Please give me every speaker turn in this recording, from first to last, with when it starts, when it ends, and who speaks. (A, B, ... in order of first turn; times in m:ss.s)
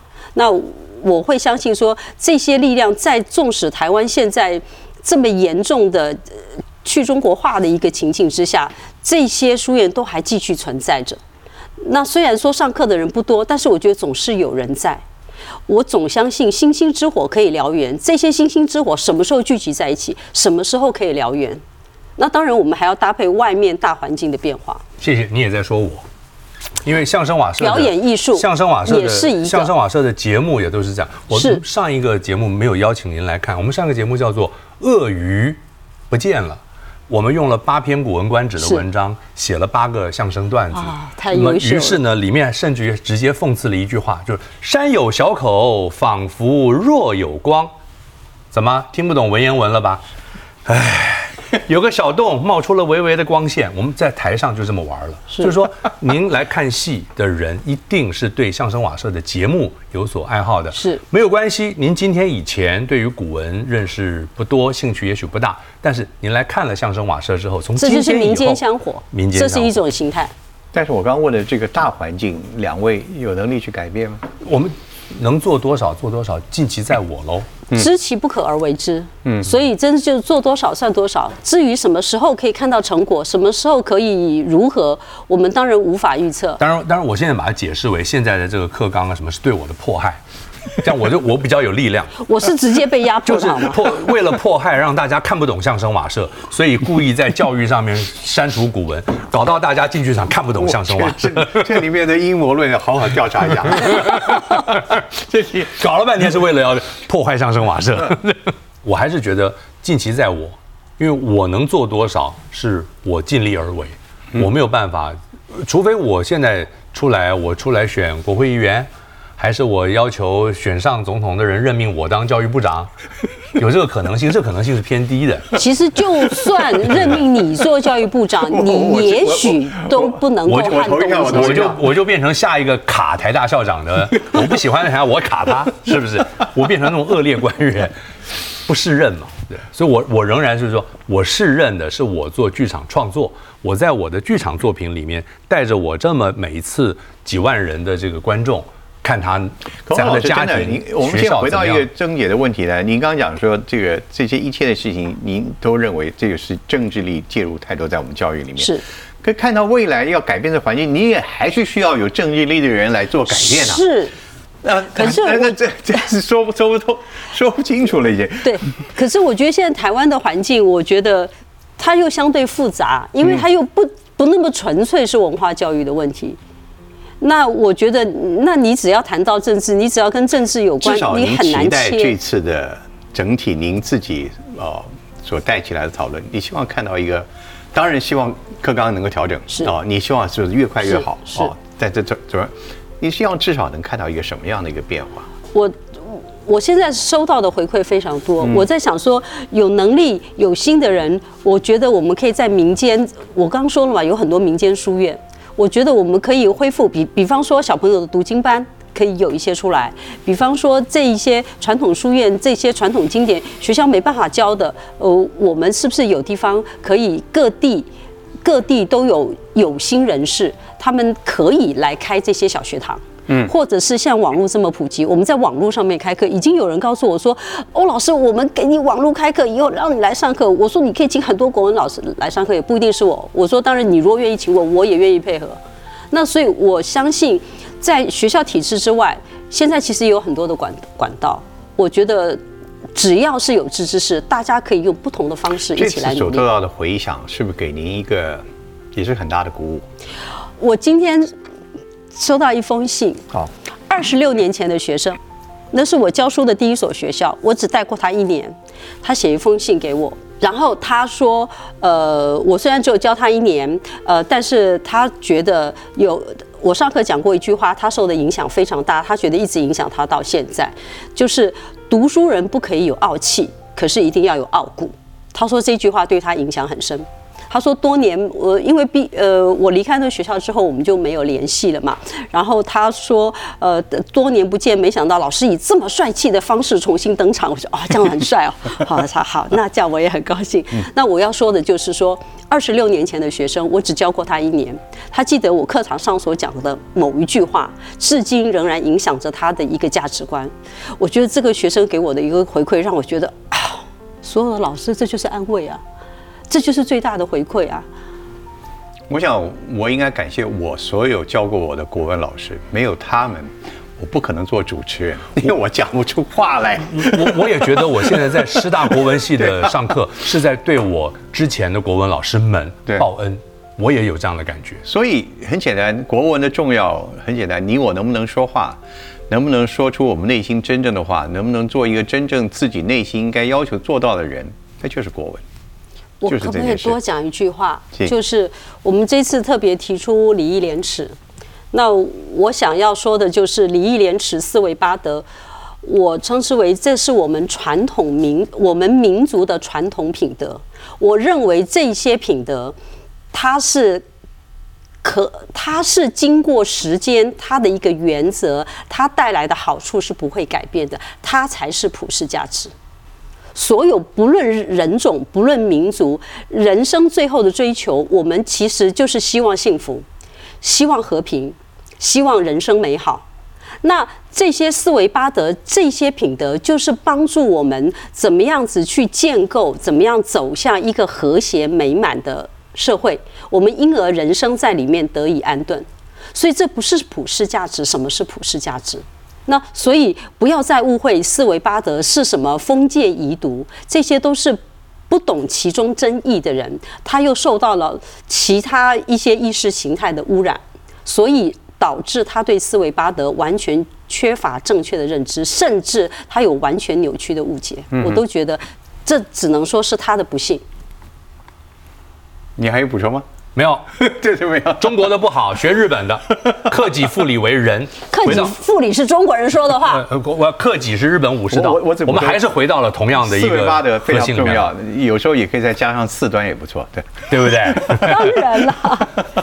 0:00.4-0:11.2 A
0:11.8-0:15.0 A
0:15.7-0:21.6 A
0:22.2-0:24.8 A
0:25.0-0:26.0 B
0:26.8-0:47.7 B
0:27.6-0:29.7 A
0:31.3-0:31.6 A
0:38.6-0:38.8 A
0:40.7-0:42.0 A
0:48.5-0:50.0 B
0:50.7-1:08.6 B
1:00.7-1:01.0 A
1:07.8-1:10.3 A
1:09.1-1:09.8 B
1:10.7-1:14.2 C
1:14.4-1:17.5 B
1:17.7-1:26.6 A
1:19.2-1:19.5 C
1:26.6-1:32.2 B
1:32.2-1:33.9 A
1:33.2-1:41.8 B
1:40.6-1:44.5 C
1:43.8-1:45.0 B
1:45.2-1:45.7 C
1:45.6-2:02.9 B
2:03.6-2:05.5 B
2:05.6-2:11.8 A
2:06.9-2:07.2 B
2:08.5-2:11.8 C
2:10.5-2:18.0 B
2:18.6-2:31.9 B
2:29.9-2:43.8 C
2:38.6-2:38.8 A
2:43.3-2:44.2 A
2:44.6-2:48.7 C
2:45.0-2:45.6 A
2:48.4-2:56.4 A
2:57.2-3:02.2 A
3:00.8-3:15.3 C
3:11.3-3:11.5 A
3:15.5-3:37.9 A
3:38.4-3:55.6 A
3:56.1-4:02.4 A
4:03.0-4:06.4 A
4:05.8-4:09.8 C
4:10.6-4:11.3 A
4:12.1-4:13.2 A
4:13.9-4:15.2 A
4:15.7-5:05.8 A
5:06.5-5:07.9 A
5:09.1-5:17.6 C
5:16.9-5:24.8 B
5:19.4-5:19.8 C
5:24.8-5:35.4 C
5:36.2-5:41.2 A
5:36.3-5:37.0 C
5:41.7-5:45.3 A
5:45.8-5:52.8 A
5:53.3-5:54.0 A
5:55.0-6:02.7 A
6:03.6-6:10.0 A
6:10.6-6:13.2 A
6:13.8-6:50.6 A
6:47.9-6:48.2 C
6:52.6-6:53.3 C
6:53.6-6:54.1 B
6:54.0-6:55.0 C
6:54.7-6:58.5 B
6:58.1-7:00.1 A
6:59.8-7:04.7 B
7:01.5-7:02.4 C
7:03.2-7:08.2 C
7:07.3-7:08.5 B
7:08.0-7:09.1 A